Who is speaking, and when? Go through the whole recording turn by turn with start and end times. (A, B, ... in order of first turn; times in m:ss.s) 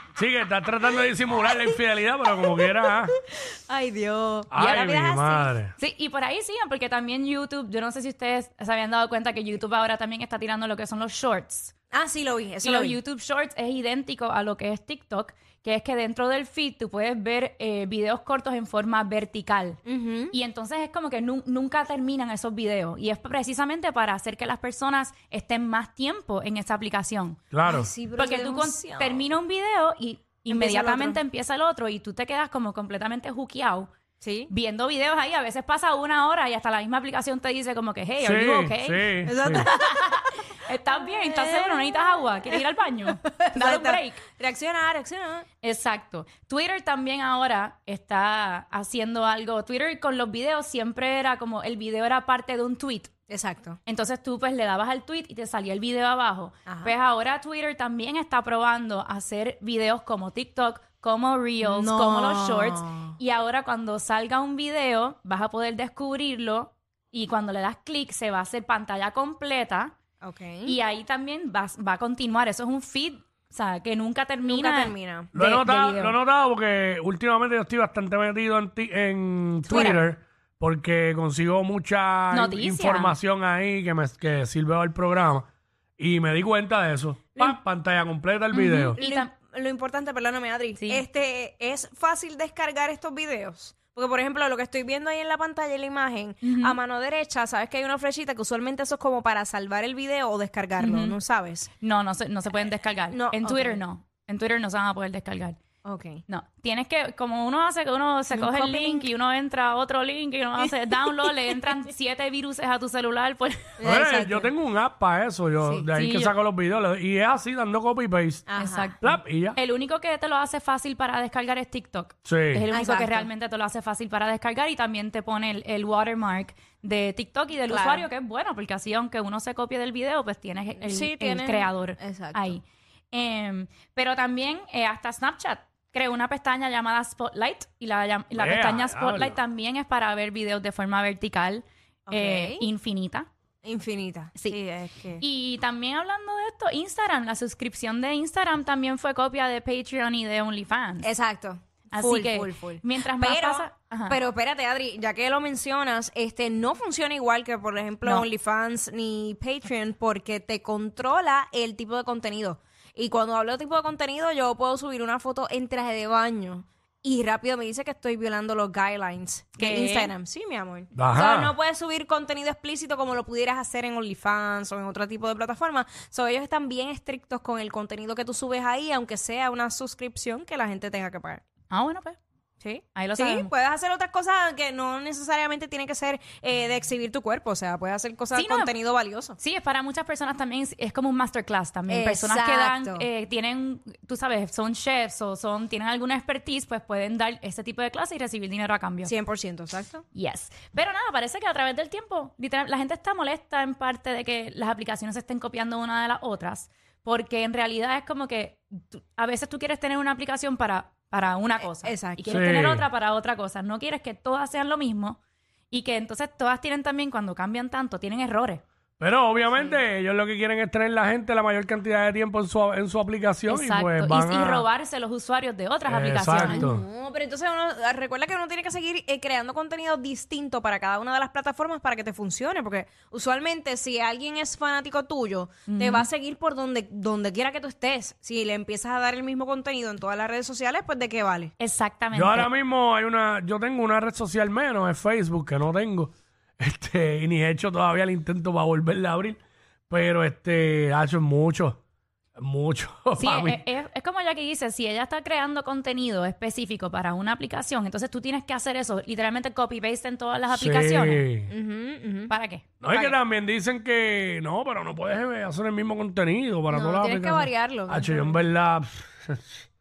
0:00.2-0:03.1 A
0:02.4-0:05.5 B
0:04.5-0:05.7 A
0:05.8-0:11.7 C
0:11.9-0:13.0 B
0:12.6-0:27.4 C
0:19.8-0:20.3 B
0:27.5-0:27.9 A
0:27.6-0:29.3 B
0:28.1-0:33.9 C
0:30.5-0:31.2 B
0:34.2-0:34.5 B
0:34.5-0:44.2 C
0:38.2-0:39.7 A
0:39.2-0:40.2 B
0:41.0-0:45.4 B
0:45.6-0:53.1 C
0:53.3-0:53.8 B
0:53.8-1:10.0 C
0:56.7-0:56.9 B
1:01.6-1:03.2 B
1:10.2-1:10.8 B
1:10.6-1:16.2 C
1:14.5-1:15.3 B
1:15.3-1:25.5 A
1:19.7-1:20.0 C
1:19.7-1:20.0 B
1:22.3-1:23.2 C
1:26.0-1:29.0 A
1:28.5-1:29.3 C
1:29.0-1:41.7 B
1:30.8-1:31.0 C
1:36.4-1:36.8 C
1:40.8-1:41.2 C
1:41.8-1:45.6 C
1:43.1-1:43.8 B
1:45.8-1:46.2 B
1:46.3-1:53.8 C
1:48.3-1:49.1 B
1:53.8-1:54.5 B
1:53.8-1:58.4 A
1:55.9-1:56.3 C
1:58.5-1:59.0 B
1:58.6-2:23.3 C
1:59.0-1:59.6 A
2:02.2-2:02.6 A
2:02.7-2:03.3 B
2:07.7-2:08.1 B
2:10.8-2:12.5 B
2:18.3-2:19.4 A
2:22.1-2:22.6 B
2:23.6-2:25.2 B
2:25.2-2:31.1 C
2:31.0-3:01.4 B
2:31.9-2:34.2 C
2:49.6-2:50.1 C
2:50.9-2:51.5 A
3:01.7-3:02.2 C
3:02.6-3:09.4 B
3:02.9-3:03.5 C
3:08.3-3:08.7 C
3:09.4-3:19.1 C
3:11.9-3:13.1 B
3:19.0-3:20.0 B
3:20.1-3:35.2 C
3:31.8-3:32.2 B
3:32.2-3:32.8 A
3:35.7-3:38.6 C
3:39.0-3:44.6 A
3:43.5-3:46.6 C
3:45.9-3:46.8 A
3:46.4-4:01.5 B
3:55.7-3:56.1 C
4:01.6-4:02.5 C
4:02.1-4:11.8 A
4:12.4-4:13.7 A
4:13.2-4:21.2 C
4:20.5-4:21.5 A
4:21.5-4:22.3 B
4:22.3-4:23.1 C
4:22.8-4:29.6 A
4:26.7-4:28.4 B